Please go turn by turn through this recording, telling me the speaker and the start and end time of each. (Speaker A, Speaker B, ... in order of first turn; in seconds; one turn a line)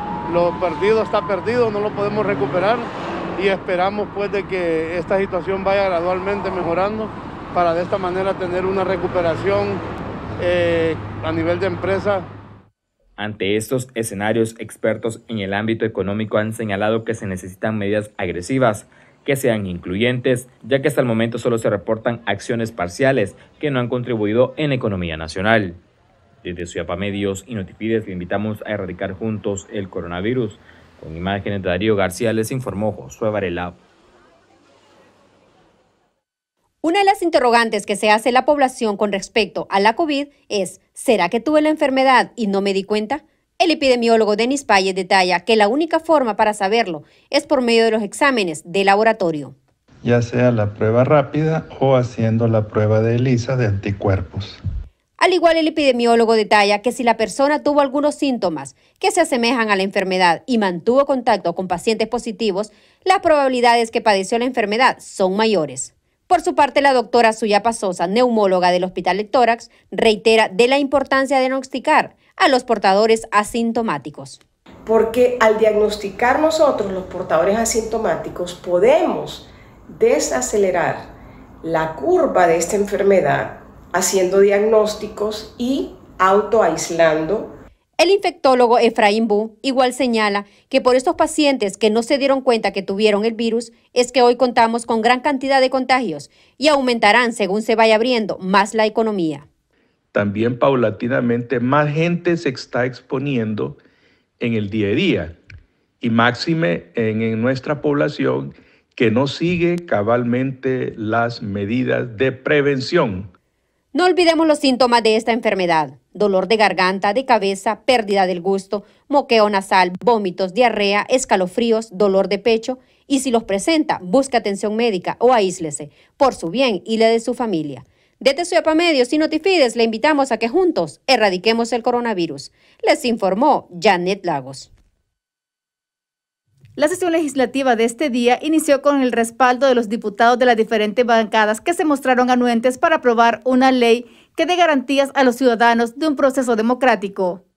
Speaker A: 0.3-9.8
Speaker A: 10.4-12.3
Speaker B: 13.2-25.8
Speaker B: 26.4-33.7
Speaker C: 36.8-49.5
Speaker D: 50.0-54.5
Speaker C: 55.2-74.4
Speaker E: 74.9-87.6
Speaker C: 88.0-99.5
Speaker F: 100.1-103.8
Speaker F: 104.4-105.4
Speaker F: 106.0-113.3
Speaker C: 113.9-134.7
Speaker G: 136.8-147.4